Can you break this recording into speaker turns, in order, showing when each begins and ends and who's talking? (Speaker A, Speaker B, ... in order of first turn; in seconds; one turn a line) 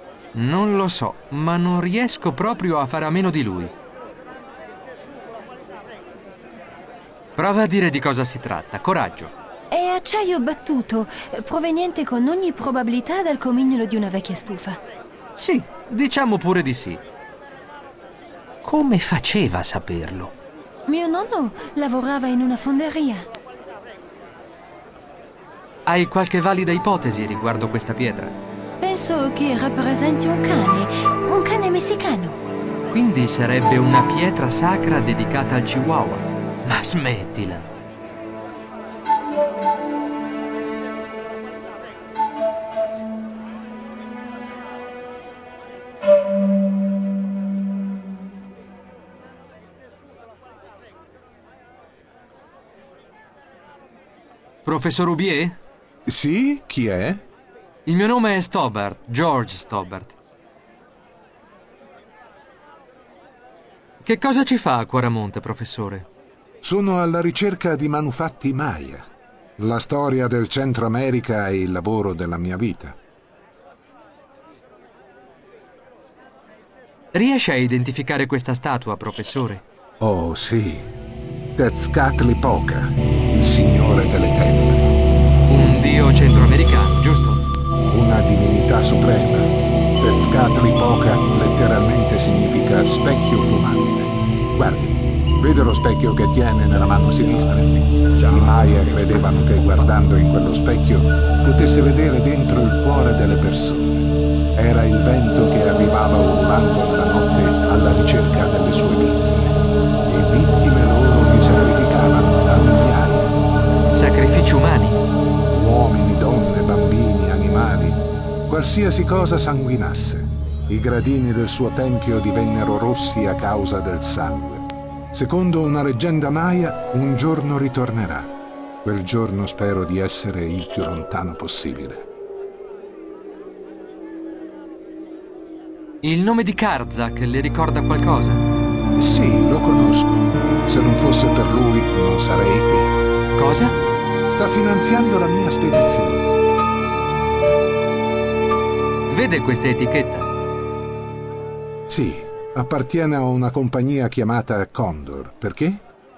Speaker A: 0.3-3.7
Speaker A: 7.4-9.3
Speaker B: 9.7-14.8
Speaker A: 15.4-17.0
Speaker A: 18.6-20.3
Speaker B: 20.9-23.3
Speaker A: 25.9-28.4
Speaker B: 28.8-32.4
Speaker A: 32.9-37.7
Speaker A: 54.6-55.6
Speaker C: 56.1-57.2
Speaker A: 57.9-60.2
Speaker A: 64.0-66.1
Speaker C: 66.6-69.1
Speaker C: 69.6-73.0
Speaker A: 77.1-79.6
Speaker C: 80.0-80.9
Speaker C: 81.6-84.9
Speaker A: 85.5-87.5
Speaker C: 87.9-113.3
Speaker A: 113.9-115.0
Speaker C: 115.5-128.3
Speaker C: 128.8-132.1
Speaker A: 136.0-138.4
Speaker C: 139.0-142.9
Speaker A: 143.4-143.8
Speaker C: 144.3-146.3
Speaker A: 149.1-150.3
Speaker C: 151.9-155.8